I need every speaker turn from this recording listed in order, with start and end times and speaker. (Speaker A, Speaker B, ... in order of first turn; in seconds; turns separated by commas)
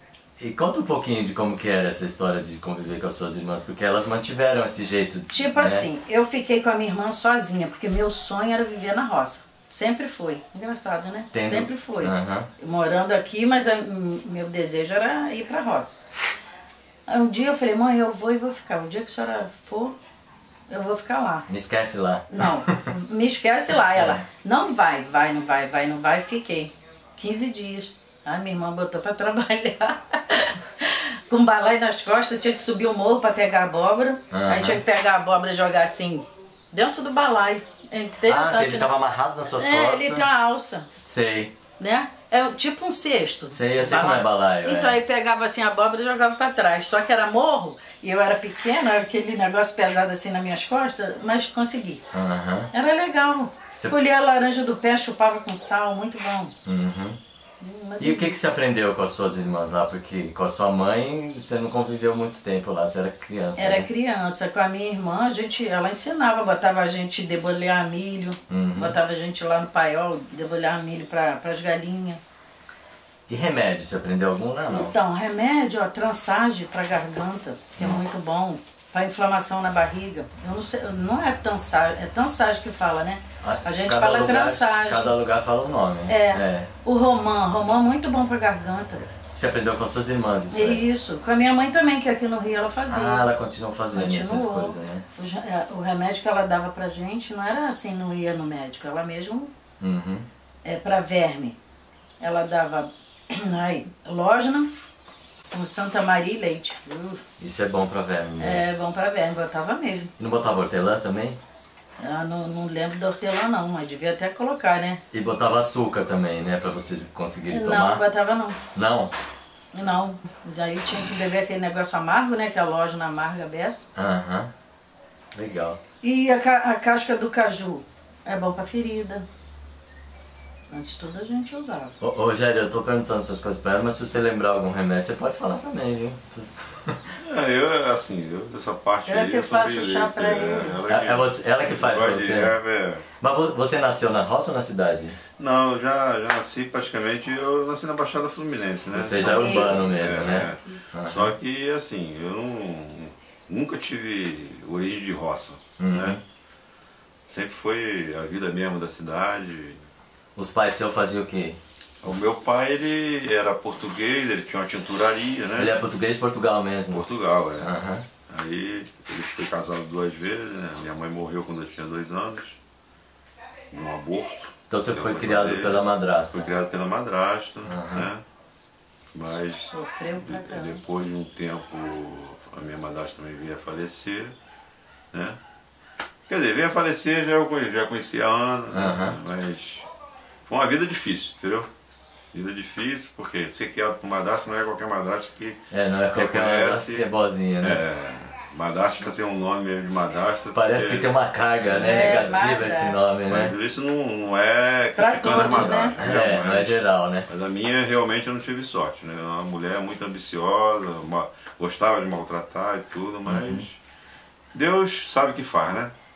Speaker A: 0.4-5.9, Speaker B: 5.3-16.0, Speaker A: 11.3-12.5, Speaker B: 17.1-20.0, Speaker B: 20.7-21.5, Speaker A: 21.5-22.8, Speaker B: 22.3-38.9, Speaker A: 23.9-24.2, Speaker A: 34.3-34.8, Speaker A: 38.3-40.3, Speaker B: 39.6-40.9, Speaker A: 41.0-41.5, Speaker B: 41.8-52.0, Speaker A: 43.5-45.0, Speaker A: 52.1-52.7, Speaker B: 52.7-56.5, Speaker A: 56.6-57.2, Speaker B: 57.6-58.4, Speaker A: 58.0-63.9, Speaker B: 63.6-72.2, Speaker A: 68.5-69.0, Speaker A: 73.3-75.0, Speaker B: 74.7-85.2, Speaker A: 77.8-78.0, Speaker A: 83.4-86.7, Speaker B: 86.1-89.1, Speaker A: 89.2-90.8, Speaker B: 90.5-93.3, Speaker A: 92.9-95.0, Speaker B: 93.9-99.5, Speaker A: 99.8-100.3, Speaker B: 100.6-101.6, Speaker B: 102.2-104.7, Speaker B: 105.5-107.2, Speaker A: 107.4-108.8, Speaker B: 108.4-110.1, Speaker A: 110.2-111.4, Speaker B: 112.0-115.0, Speaker A: 115.1-118.0, Speaker B: 117.5-118.6, Speaker A: 118.7-119.1, Speaker B: 119.7-123.9, Speaker A: 124.0-124.5, Speaker A: 125.3-125.8, Speaker B: 126.0-129.2, Speaker B: 130.7-131.9, Speaker A: 132.0-137.2, Speaker C: 137.2-143.1, Speaker B: 139.1-140.8, Speaker A: 140.9-142.6, Speaker A: 143.2-145.2, Speaker C: 145.4-156.2, Speaker A: 148.9-151.3, Speaker B: 149.2-149.8, Speaker A: 155.8-156.2, Speaker C: 157.3-159.8, Speaker A: 160.4-162.2, Speaker C: 162.0-165.8, Speaker A: 165.6-167.1, Speaker C: 166.9-167.7, Speaker A: 167.6-168.1, Speaker C: 168.3-172.6, Speaker C: 173.7-178.2, Speaker A: 174.7-176.5, Speaker A: 177.7-178.1, Speaker C: 179.1-184.3, Speaker B: 179.7-180.8, Speaker C: 185.1-185.4, Speaker C: 186.3-189.9, Speaker A: 188.7-189.2, Speaker C: 190.5-191.7, Speaker C: 192.3-195.6, Speaker A: 195.7-197.8, Speaker C: 196.1-197.1, Speaker C: 197.6-201.1, Speaker A: 200.5-203.6, Speaker C: 201.7-202.4, Speaker B: 201.8-203.0, Speaker C: 203.3-213.8, Speaker B: 205.0-206.0, Speaker A: 205.3-207.3, Speaker A: 213.3-213.7, Speaker C: 214.5-215.9